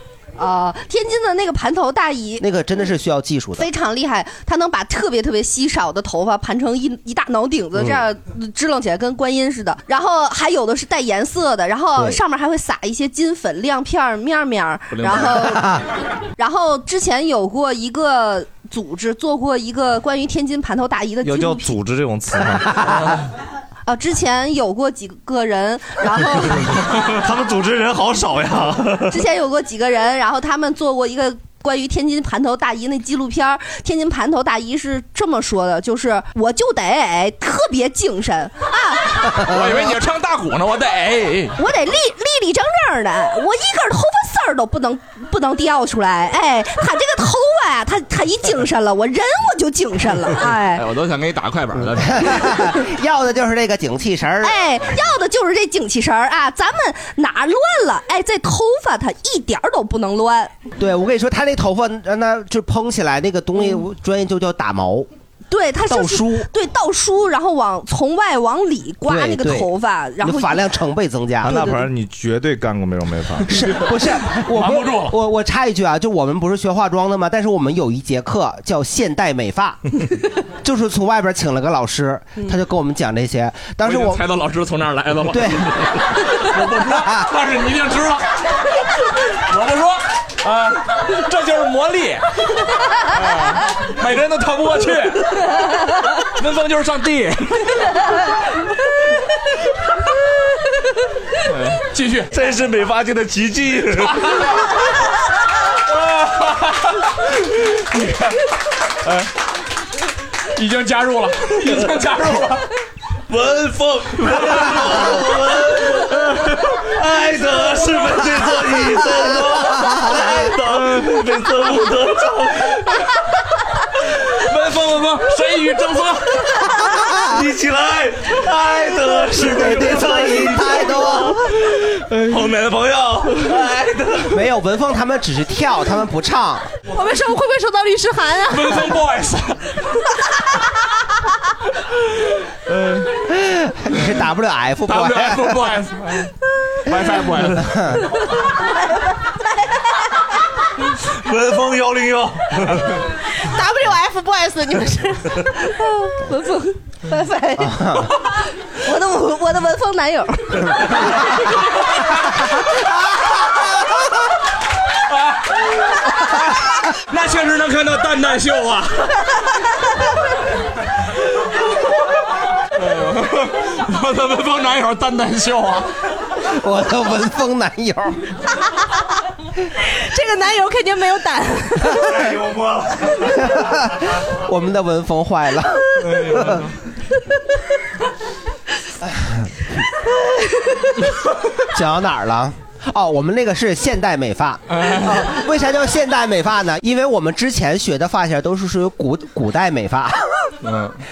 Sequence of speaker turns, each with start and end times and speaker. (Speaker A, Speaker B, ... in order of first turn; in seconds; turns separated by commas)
Speaker A: 0.4-2.4, Speaker B: 2.4-3.7, Speaker A: 3.6-15.8, Speaker B: 7.8-8.0, Speaker C: 14.9-15.6, Speaker B: 15.5-15.8, Speaker A: 16.4-21.8, Speaker D: 21.2-23.1, Speaker A: 23.9-26.7, Speaker D: 27.0-29.2, Speaker A: 29.1-39.3, Speaker C: 39.3-41.6, Speaker A: 41.6-50.8, Speaker C: 50.7-52.6, Speaker B: 51.9-54.6, Speaker A: 54.4-60.5, Speaker B: 60.8-65.1, Speaker A: 65.5-70.6, Speaker B: 65.8-66.5, Speaker B: 69.1-71.8, Speaker D: 71.4-73.6, Speaker B: 73.5-79.8, Speaker C: 74.3-75.2, Speaker B: 80.6-84.2, Speaker C: 83.8-88.2, Speaker B: 85.3-85.7, Speaker B: 86.9-87.3, Speaker C: 89.5-92.2, Speaker C: 93.1-95.4, Speaker C: 96.4-97.7, Speaker C: 101.5-102.3, Speaker D: 102.3-104.3, Speaker C: 105.9-106.9, Speaker C: 107.8-108.4, Speaker C: 110.5-112.6, Speaker D: 113.3-122.8, Speaker C: 124.4-126.7, Speaker D: 127.2-134.3, Speaker B: 129.4-131.4, Speaker B: 134.3-136.7, Speaker E: 136.9-138.9, Speaker C: 138.5-139.8, Speaker B: 143.3-145.6, Speaker C: 144.8-146.3, Speaker C: 146.8-147.8, Speaker B: 147.6-148.1, Speaker A: 149.2-149.8, Speaker D: 151.1-152.9, Speaker E: 153.4-155.4, Speaker A: 155.8-157.8, Speaker B: 157.6-158.1, Speaker A: 158.8-161.3, Speaker C: 167.1-169.1, Speaker C: 172.8-175.9, Speaker B: 176.5-178.2, Speaker E: 179.9-181.9, Speaker D: 181.9-183.1, Speaker B: 183.5-186.6, Speaker C: 186.1-186.6, Speaker B: 189.0-189.4, Speaker B: 191.7-200.2, Speaker C: 194.7-195.2, Speaker C: 200.6-201.0